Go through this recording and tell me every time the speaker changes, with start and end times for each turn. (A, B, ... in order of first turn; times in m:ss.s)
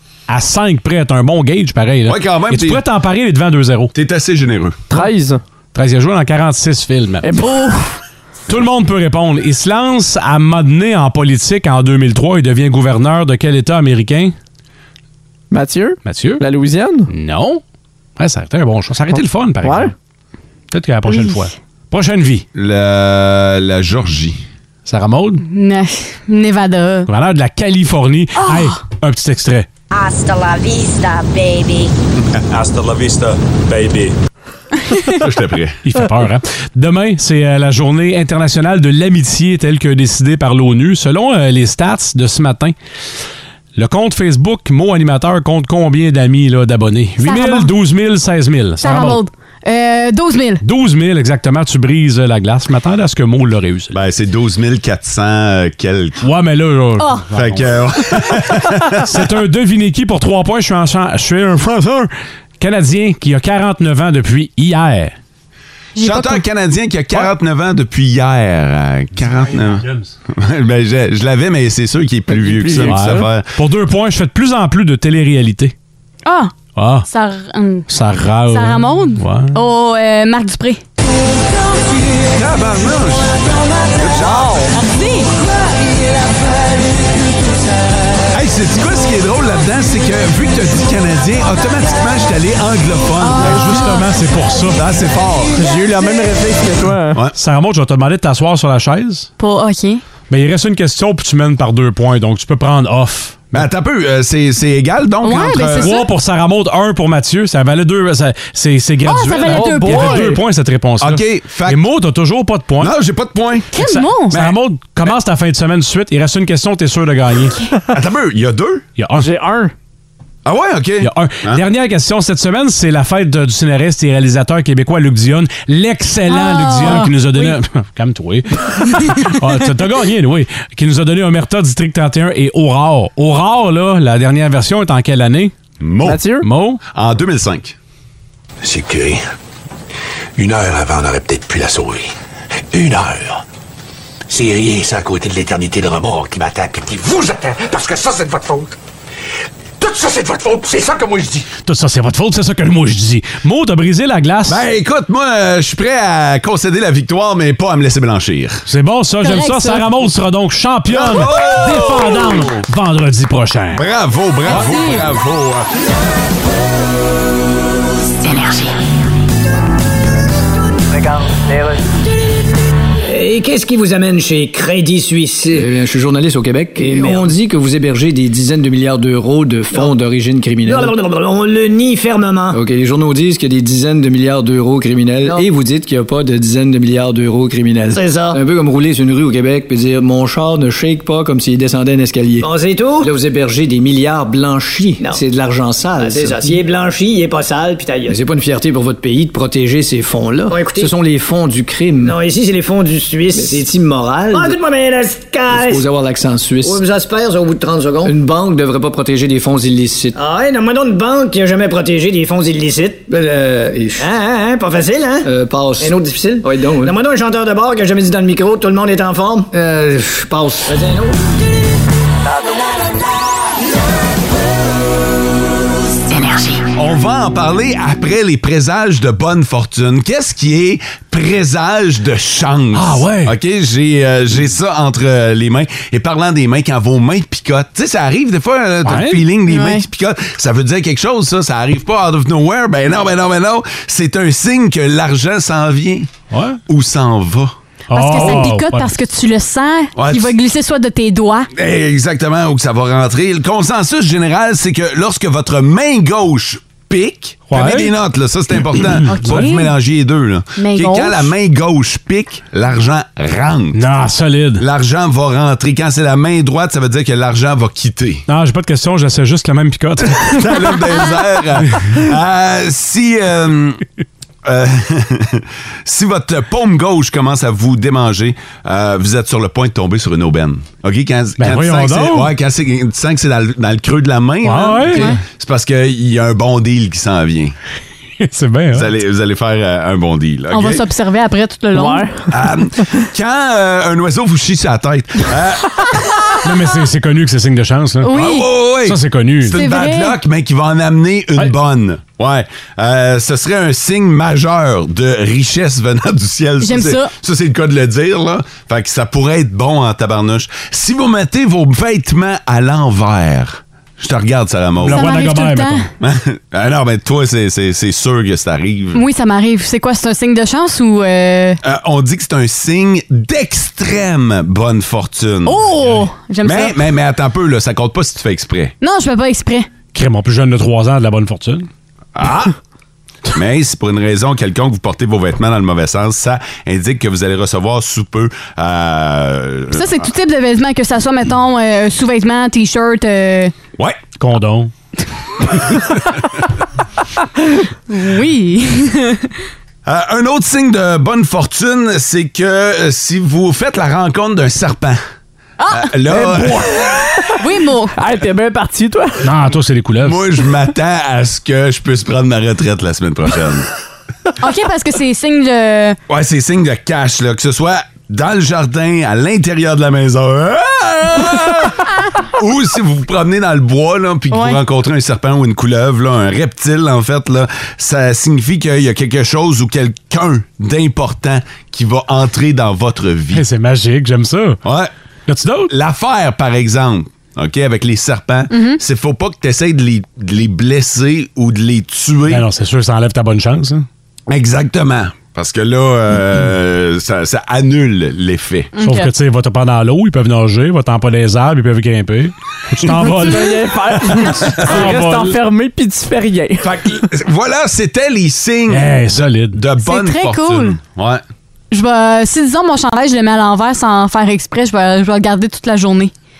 0:00.3-0:03.9 A
0:02.1-0:02.8 B
0:03.9-0:04.8 B
0:04.9-0:05.4 C
0:05.7-0:07.3 A
0:07.2-0:08.0 C
0:08.5-0:14.3 A
0:15.5-0:17.1 C
0:16.0-0:16.4 A
0:17.1-0:17.6 A
0:18.2-0:19.9 A
0:19.6-0:19.9 C
0:20.7-0:22.4 A
0:21.1-0:21.4 D
0:22.6-0:24.4 B
0:24.8-0:25.4 A
0:25.4-0:27.1 D
0:27.1-0:29.7 A
0:28.4-0:28.8 D
0:29.9-0:31.9 E
0:35.2-0:35.8 B
0:35.9-0:42.8 A
0:43.8-0:49.2 A
0:47.2-0:47.7 D
0:48.8-0:50.6 D
0:50.6-0:53.9 A
0:53.9-0:56.2 B
0:56.2-0:57.7 A
0:57.0-0:57.2 D
0:57.3-0:59.2 B
0:59.0-1:05.1 A
1:06.0-1:06.4 D
1:06.0-1:13.5 B
1:12.3-1:13.1 C
1:12.8-1:15.7 A
1:16.3-1:16.6 D
1:16.8-1:17.1 A
1:17.1-1:17.9 D
1:17.9-1:19.6 A
1:18.5-1:20.8 D
1:22.3-1:24.7 B
1:24.7-1:25.3 D
1:28.3-1:33.9 B
1:33.2-1:34.1 D
1:33.4-1:34.8 A
1:34.7-1:35.6 B
1:35.6-1:37.2 C
1:37.4-1:39.3 A
1:39.4-1:40.0 D
1:40.3-1:43.6 A
1:43.5-1:46.0 B
1:45.2-1:46.1 D
1:45.8-1:52.9 A
1:49.0-1:50.3 D
1:49.5-1:50.4 C
1:51.0-1:51.8 B
1:52.8-1:53.7 B
1:53.7-1:54.4 D
1:53.8-1:57.6 A
1:54.3-1:54.6 B
1:57.9-1:58.9 B
1:59.0-1:59.3 A
1:59.2-1:59.7 C
2:00.4-2:01.6 B
2:01.0-2:15.5 A
2:06.3-2:07.1 D
2:15.8-2:16.2 B
2:16.0-2:16.4 C
2:16.4-2:16.8 A
2:16.9-2:17.8 B
2:18.6-2:19.2 F
2:20.4-2:22.1 F
2:22.7-2:23.4 F
2:24.3-2:28.8 F
2:29.8-2:31.5 F
2:31.6-2:34.6 A
2:34.5-2:38.7 B
2:38.7-2:43.8 A
2:39.2-2:39.9 D
2:40.9-2:42.6 B
2:43.7-2:45.7 B
2:44.5-2:45.0 D
2:53.1-2:55.7 G
2:55.5-3:01.0 H
2:56.8-2:57.3 G
3:00.6-3:02.6 G
3:02.5-3:16.6 H
3:07.9-3:08.4 G
3:12.4-3:13.1 G
3:16.0-3:18.2 G
3:18.1-3:22.2 H
3:20.5-3:20.9 G
3:22.0-3:23.7 G
3:23.4-3:24.6 H
3:24.3-3:25.9 G
3:25.5-3:26.9 H
3:26.6-3:28.2 G
3:28.0-3:30.2 H
3:30.2-3:33.1 G
3:33.1-3:34.1 H
3:34.0-3:39.5 G
3:35.2-3:37.0 H
3:39.5-3:41.0 H
3:40.7-3:41.1 G
3:46.7-4:06.2 B
3:52.7-3:53.3 A
3:58.8-3:59.2 A
3:59.5-3:59.8 D
4:06.3-4:06.6 A
4:06.7-4:07.5 B
4:07.9-4:08.9 A
4:07.9-4:11.5 D
4:08.2-4:08.4 B
4:10.0-4:10.4 B
4:11.5-4:23.8 B
4:17.5-4:17.9 A
4:19.1-4:19.7 D
4:20.6-4:21.3 D
4:23.7-4:24.6 A
4:24.6-4:28.3 B
4:28.3-4:30.5 A
4:30.1-4:33.8 B
4:34.4-4:47.6 B
4:41.4-4:42.3 A
4:44.4-4:45.1 A
4:44.9-4:45.2 D
4:48.2-4:48.9 A
4:48.7-4:50.8 B
4:50.5-4:52.1 D
4:51.8-4:52.3 C
4:52.3-4:56.3 B
4:56.4-4:58.1 A
4:58.0-4:58.5 D
4:58.1-5:15.1 B
4:58.8-4:59.6 A
4:59.5-5:00.2 D
5:06.6-5:07.1 D
5:14.8-5:15.9 A
5:14.9-5:15.9 D
5:16.0-5:19.0 B
5:19.0-5:21.6 D
5:21.6-5:25.6 B
5:25.5-5:26.8 D
5:26.4-5:28.7 B
5:28.8-5:29.7 D
5:29.9-5:31.7 A
5:32.2-5:32.5 B
5:33.3-5:40.1 B
5:39.7-5:43.5 D
5:43.8-5:44.0 B
5:44.2-5:44.7 A
5:47.9-5:49.4 D
5:49.8-5:55.0 B
5:55.6-5:55.9 D
5:55.7-5:57.1 B
5:56.1-5:57.4 C
5:57.4-5:57.9 D
5:58.0-5:59.3 C
5:59.2-6:00.2 A
6:00.0-6:03.7 B
6:04.4-6:06.0 D
6:06.1-6:23.4 B
6:14.3-6:14.6 D
6:23.3-6:24.6 A
6:24.6-6:24.9 B
6:25.3-6:25.7 A
6:25.7-6:32.5 B
6:28.5-6:28.8 D
6:32.3-6:33.9 A
6:34.3-6:38.7 B
6:38.8-6:39.1 D
6:38.8-6:45.4 A
6:43.2-6:46.7 C
6:46.6-6:51.2 B
6:48.7-6:49.6 A
6:49.8-6:50.8 D
6:51.7-6:56.1 D